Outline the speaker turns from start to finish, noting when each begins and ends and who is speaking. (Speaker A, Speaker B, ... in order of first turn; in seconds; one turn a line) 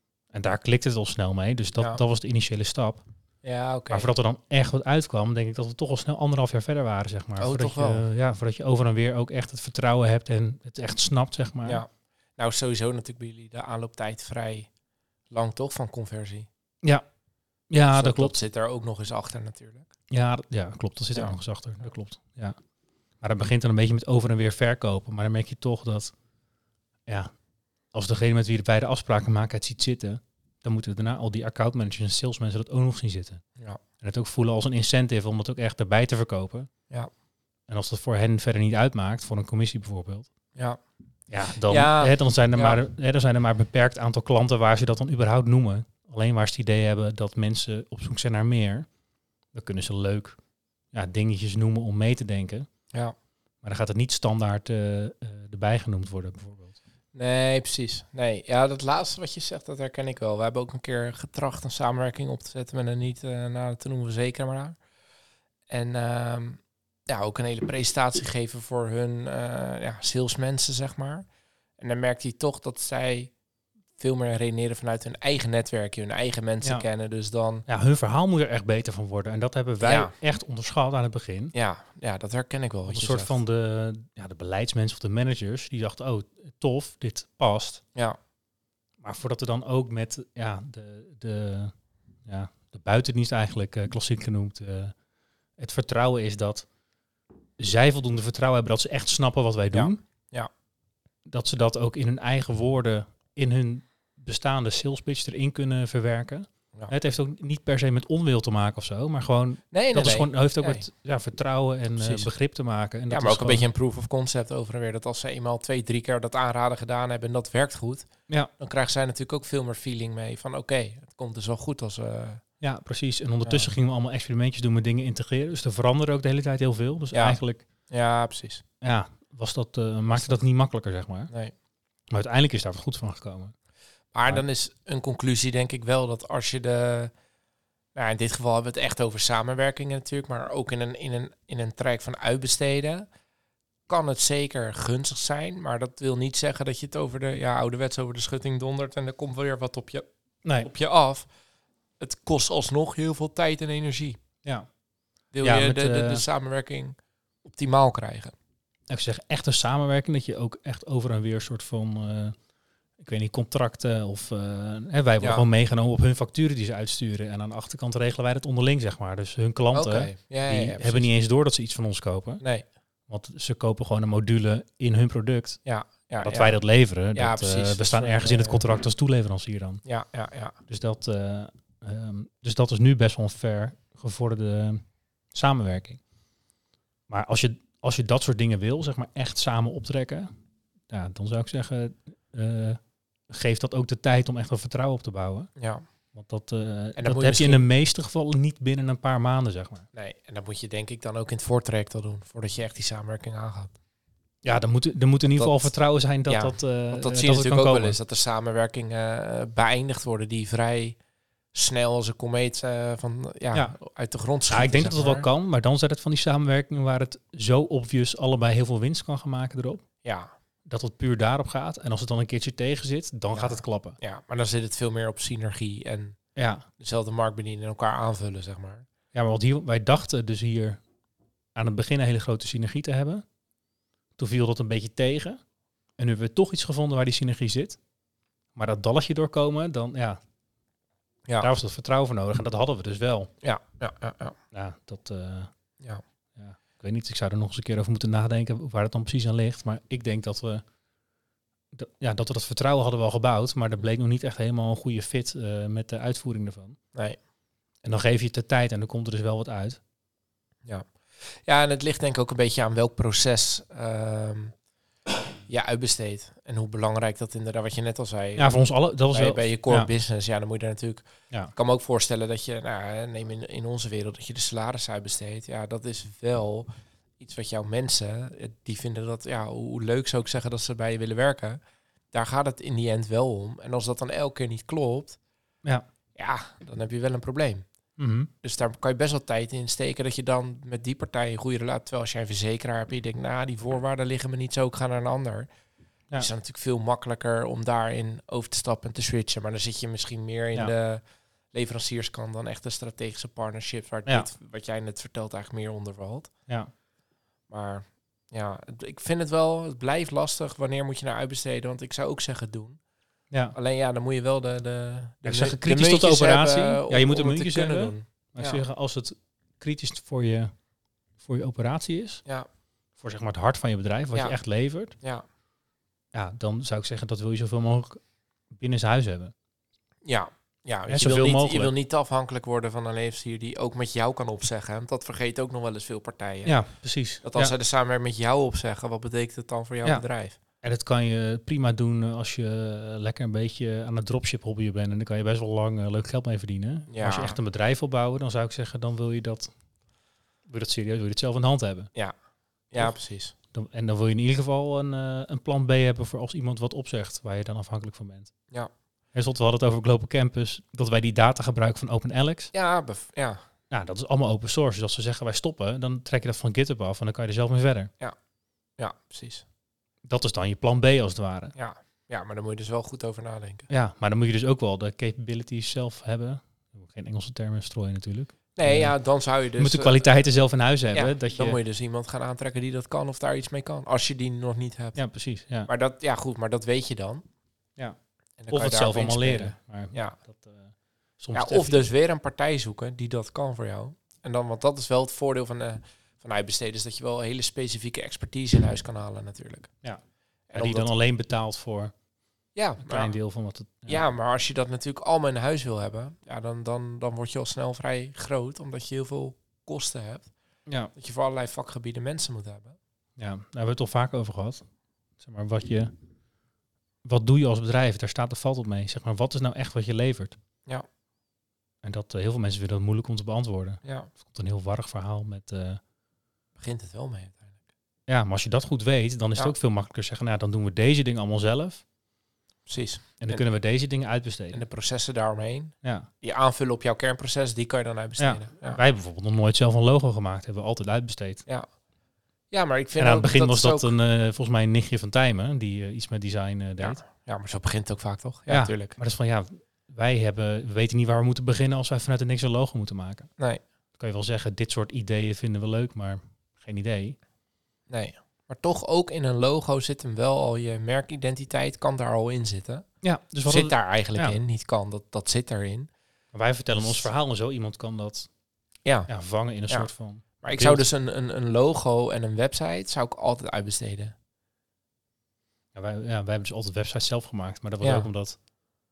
Speaker A: 0.3-3.0
Speaker B: 3.4-4.1
Speaker A: 3.9-11.8
Speaker B: 7.4-8.0
Speaker B: 11.7-14.7
Speaker B: 15.3-16.5
Speaker A: 17.7-18.4
Speaker B: 17.9-19.9
Speaker A: 20.1-22.6
Speaker A: 23.2-26.1
Speaker A: 27.1-27.3
Speaker A: 27.9-33.4
Speaker A: 34.0-36.7
Speaker A: 37.7-40.3
Speaker A: 41.3-48.9
Speaker B: 41.6-42.8
Speaker A: 49.5-50.4
Speaker A: 50.9-52.7
Speaker A: 53.6-56.8
Speaker B: 57.1-64.8
Speaker B: 65.7-71.3
Speaker B: 71.8-73.3
Speaker B: 74.0-77.7
Speaker A: 77.7-81.5
Speaker B: 79.8-80.1
Speaker B: 81.5-83.3
Speaker A: 82.9-87.8
Speaker A: 89.0-91.7
Speaker A: 92.2-95.0
Speaker A: 95.6-96.7
Speaker A: 97.6-100.0
Speaker B: 99.7-100.5
Speaker A: 101.3-113.6
Speaker B: 109.7-110.8
Speaker B: 112.0-112.3
Speaker B: 113.1-122.5
Speaker A: 122.6-127.6
Speaker B: 123.4-123.7
Speaker B: 127.1-128.6
Speaker A: 128.8-131.3
Speaker B: 130.1-130.4
Speaker A: 132.1-133.6
Speaker B: 134.1-137.1
Speaker B: 137.9-143.1
Speaker B: 143.9-150.1
Speaker A: 150.4-150.7
Speaker B: 150.6-151.3
Speaker B: 152.0-154.2
Speaker B: 155.3-158.3
Speaker A: 155.4-156.2
Speaker A: 158.9-162.4
Speaker A: 163.0-172.4
Speaker B: 165.2-165.5
Speaker B: 169.7-171.1
Speaker A: 173.1-179.8
Speaker B: 175.6-178.6
Speaker B: 179.8-180.6
Speaker A: 180.7-186.0
Speaker A: 187.1-190.3
Speaker A: 190.9-195.5
Speaker B: 195.6-195.8
Speaker A: 196.1-199.9
Speaker B: 197.0-197.6
Speaker B: 199.9-203.8
Speaker A: 204.4-208.0
Speaker B: 205.3-211.0
Speaker B: 211.5-215.3
Speaker A: 214.5-219.8
Speaker B: 220.0-220.3
Speaker A: 220.7-224.0
Speaker B: 223.3-226.2
Speaker A: 226.4-226.7
Speaker B: 226.8-228.9
Speaker A: 229.1-230.8
Speaker A: 231.6-233.2
Speaker A: 234.2-235.4
Speaker A: 236.0-237.8
Speaker A: 238.6-240.2
Speaker A: 241.4-243.3
Speaker B: 243.4-244.4
Speaker A: 244.5-245.5
Speaker A: 246.4-250.6
Speaker A: 251.7-256.8
Speaker A: 257.8-259.8
Speaker B: 260.6-264.6
Speaker B: 265.5-281.6
Speaker A: 268.4-269.9
Speaker B: 282.1-285.2
Speaker B: 286.1-287.6
Speaker A: 288.0-288.3
Speaker B: 288.4-295.5
Speaker B: 296.1-306.3
Speaker B: 307.5-312.8
Speaker B: 313.5-318.6
Speaker A: 315.2-320.6
Speaker A: 321.2-322.2
Speaker A: 323.0-324.9
Speaker B: 324.9-325.2
Speaker A: 326.1-329.3
Speaker B: 330.0-340.4
Speaker A: 330.9-331.7
Speaker A: 336.4-337.5
Speaker A: 340.6-349.6
Speaker B: 346.9-347.4
Speaker A: 350.5-351.9
Speaker B: 352.7-353.3
Speaker A: 352.8-358.4
Speaker A: 359.1-362.5
Speaker B: 362.5-363.4
Speaker A: 363.7-367.9
Speaker B: 368.8-369.4
Speaker A: 370.0-371.5
Speaker B: 371.6-373.7
Speaker A: 373.7-378.9
Speaker B: 378.6-380.1
Speaker A: 379.6-381.6
Speaker B: 380.9-385.0
Speaker A: 384.9-385.7
Speaker B: 385.6-387.2
Speaker A: 387.8-391.9
Speaker B: 388.4-390.2
Speaker B: 391.3-399.9
Speaker A: 399.8-402.0
Speaker B: 400.5-400.9
Speaker B: 402.6-403.2
Speaker A: 402.8-404.1
Speaker B: 403.9-410.3
Speaker A: 410.7-410.9
Speaker B: 410.9-412.8
Speaker A: 413.2-414.6
Speaker A: 415.2-415.9
Speaker A: 417.0-420.4
Speaker A: 421.8-425.8
Speaker B: 423.9-424.1
Speaker B: 426.6-427.6
Speaker A: 428.1-431.8
Speaker B: 432.6-433.5
Speaker A: 433.2-434.6
Speaker B: 434.5-438.8
Speaker A: 435.8-436.1
Speaker A: 438.2-441.4
Speaker B: 442.5-443.9
Speaker A: 443.0-447.0
Speaker B: 446.8-449.0
Speaker A: 448.5-453.3
Speaker A: 453.9-457.2
Speaker B: 457.9-465.9
Speaker A: 463.0-464.4
Speaker A: 466.3-468.3
Speaker B: 466.8-467.1
Speaker B: 468.8-474.1
Speaker A: 469.1-470.8
Speaker A: 475.7-478.4
Speaker B: 477.8-478.1